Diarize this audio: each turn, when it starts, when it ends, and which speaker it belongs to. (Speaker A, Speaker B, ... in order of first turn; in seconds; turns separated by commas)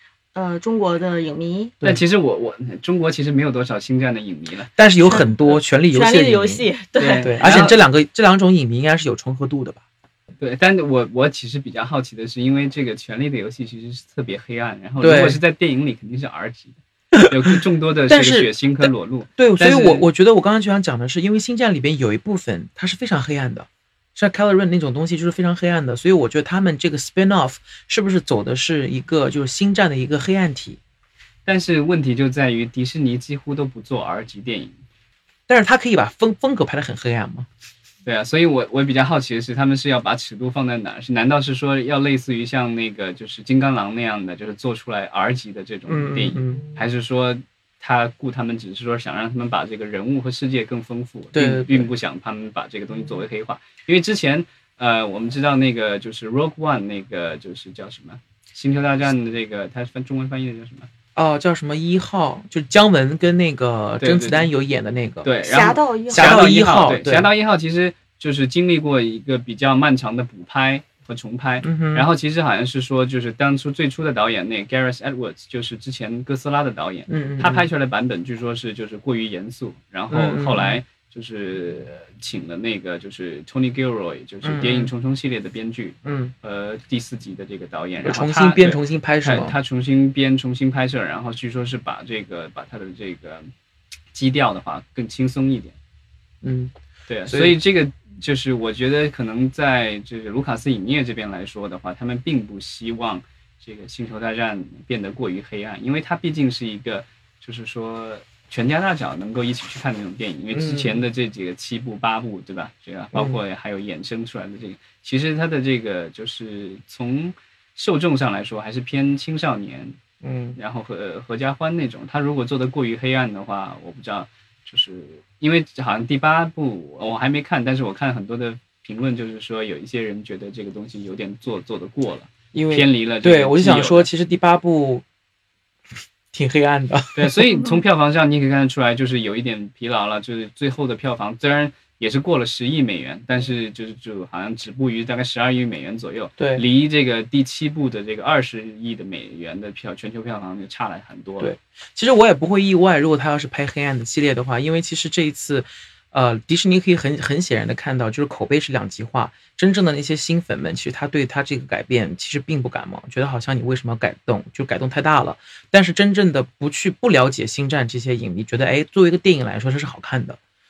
Speaker A: 0.3-1.7, Speaker B: 1.8-4.7, Speaker C: 4.8-6.7, Speaker A: 5.0-5.3, Speaker A: 5.8-7.4, Speaker B: 7.0-7.8, Speaker C: 7.2-9.8, Speaker B: 10.4-20.1, Speaker C: 15.0-15.4, Speaker C: 17.1-30.8, Speaker B: 31.4-34.8, Speaker C: 35.5-37.5, Speaker B: 38.0-60.9, Speaker C: 45.9-46.7, Speaker C: 51.3-51.9, Speaker C: 61.1-65.3, Speaker B: 64.0-64.5, Speaker B: 65.2-93.5, Speaker A: 65.4-66.4, Speaker C: 66.1-67.3, Speaker C: 71.6-72.1, Speaker C: 77.1-77.7, Speaker C: 80.1-80.8, Speaker C: 84.4-84.9, Speaker C: 86.0-86.3, Speaker C: 88.0-89.5, Speaker B: 94.1-95.8, Speaker C: 96.4-96.7, Speaker B: 97.1-120.0, Speaker C: 97.2-97.5, Speaker C: 110.5-111.0, Speaker C: 113.1-113.4, Speaker C: 120.2-120.6, Speaker B: 120.5-134.1, Speaker C: 132.5-135.0, Speaker C: 136.3-137.5, Speaker B: 137.1-151.5, Speaker C: 146.4-146.6, Speaker C: 151.4-170.4